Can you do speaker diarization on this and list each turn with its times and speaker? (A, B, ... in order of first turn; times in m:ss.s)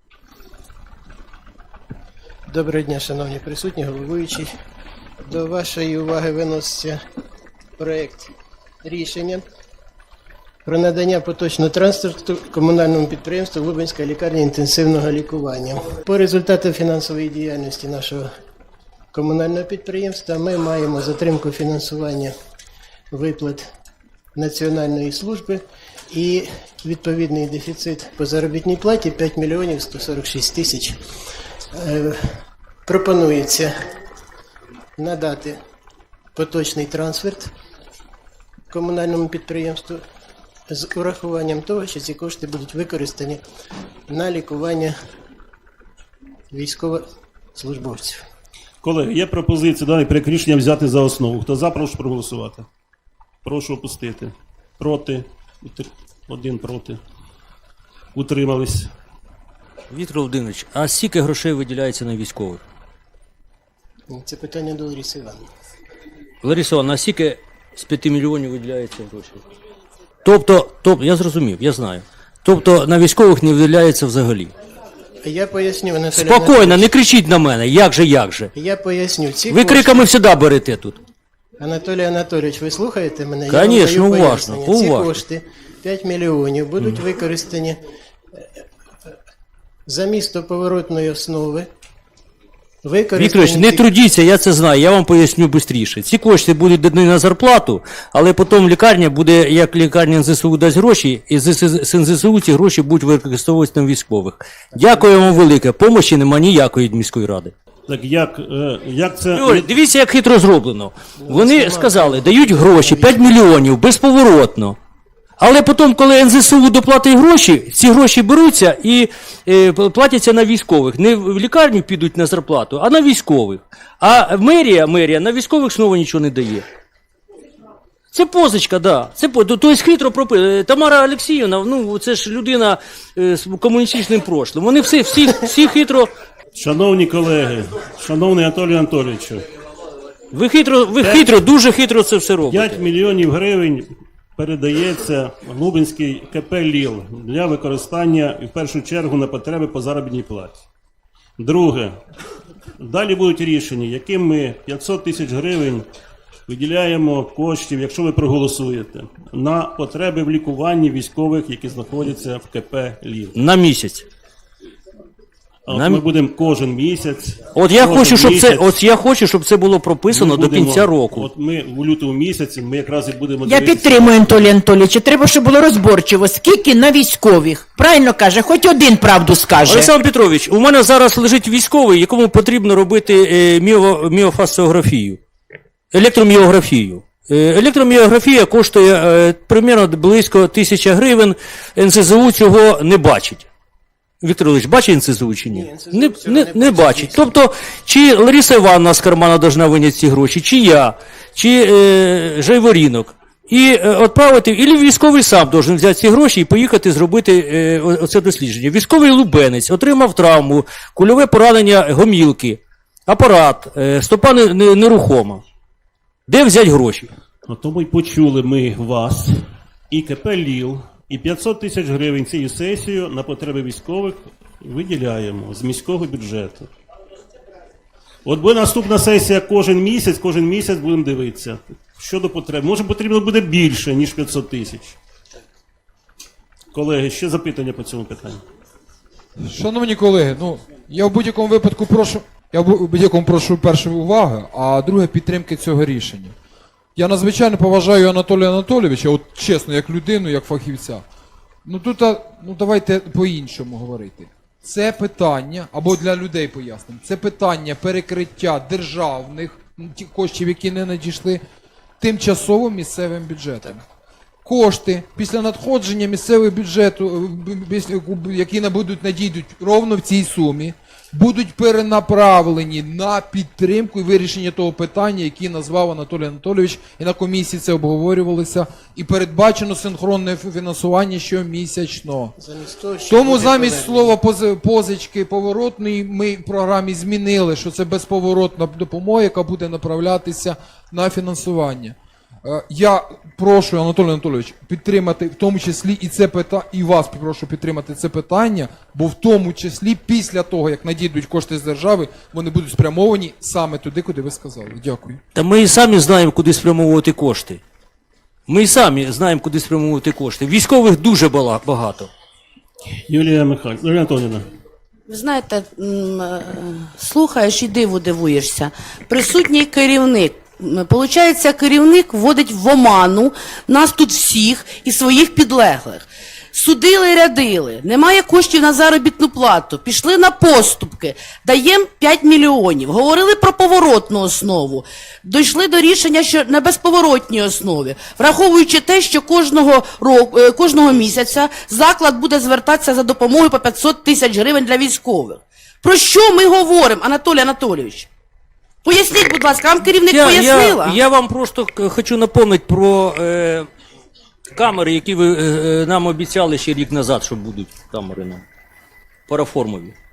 0:02.5-0:04.5 A
0:05.2-0:07.0 A
0:07.8-0:08.3 A
0:08.8-0:09.4 A
0:10.6-0:18.3 A
0:19.1-0:22.3 A
0:23.1-0:23.7 A
0:24.4-0:31.0 A
0:31.7-0:33.7 A
0:35.0-0:35.6 A
0:36.4-0:37.5 A
0:38.7-0:40.0 A
0:40.7-0:43.4 A
0:44.1-0:45.0 A
0:46.5-0:47.0 A
0:47.6-0:48.2 A
0:48.8-0:52.7 B
0:53.4-0:57.0 B
0:58.1-0:58.9 B
0:59.9-1:02.6 C
1:04.1-1:05.5 A
1:06.4-1:09.4 C
1:10.2-1:14.5 C
1:15.2-1:16.9 A
1:16.1-1:18.5 C
1:18.6-1:20.0 A
1:19.5-1:21.0 C
1:21.6-1:27.8 A
1:23.5-1:25.2 C
1:29.9-1:31.7 A
1:32.8-1:33.9 A
1:33.2-1:47.5 C
1:44.8-1:45.1 A
1:47.9-1:49.7 B
1:49.4-1:54.8 C
1:51.2-1:53.3 A
1:55.4-2:06.6 C
2:08.1-2:16.1 C
2:16.6-2:19.4 B
2:20.3-2:22.8 C
2:21.0-2:21.3 B
2:22.5-2:30.6 B
2:31.4-2:32.0 B
2:32.8-2:35.9 B
2:36.5-2:43.4 B
2:43.4-2:44.1 C
2:45.7-2:48.6 B
2:45.7-2:46.0 C
2:47.5-2:51.3 C
2:50.1-2:54.5 B
2:53.4-2:59.9 D
2:59.6-3:05.2 C
3:05.9-3:13.5 C
3:14.2-3:35.4 C
3:15.5-3:17.2 A
3:36.3-3:37.1 C
3:37.5-3:46.7 B
3:48.2-3:55.0 B
3:56.7-3:58.4 B
3:59.4-4:06.3 E
4:07.0-4:11.0 E
4:11.6-4:21.4 E
4:22.0-4:23.8 E
4:24.4-4:42.4 E
4:42.4-4:44.2 A
4:43.1-5:05.2 E
5:05.4-5:07.6 C
5:08.5-5:12.1 C
5:13.1-5:14.5 B
5:15.1-5:48.1 F
5:48.8-5:51.0 F
5:50.0-5:53.7 C
5:54.6-5:58.4 C
5:59.3-6:00.0 C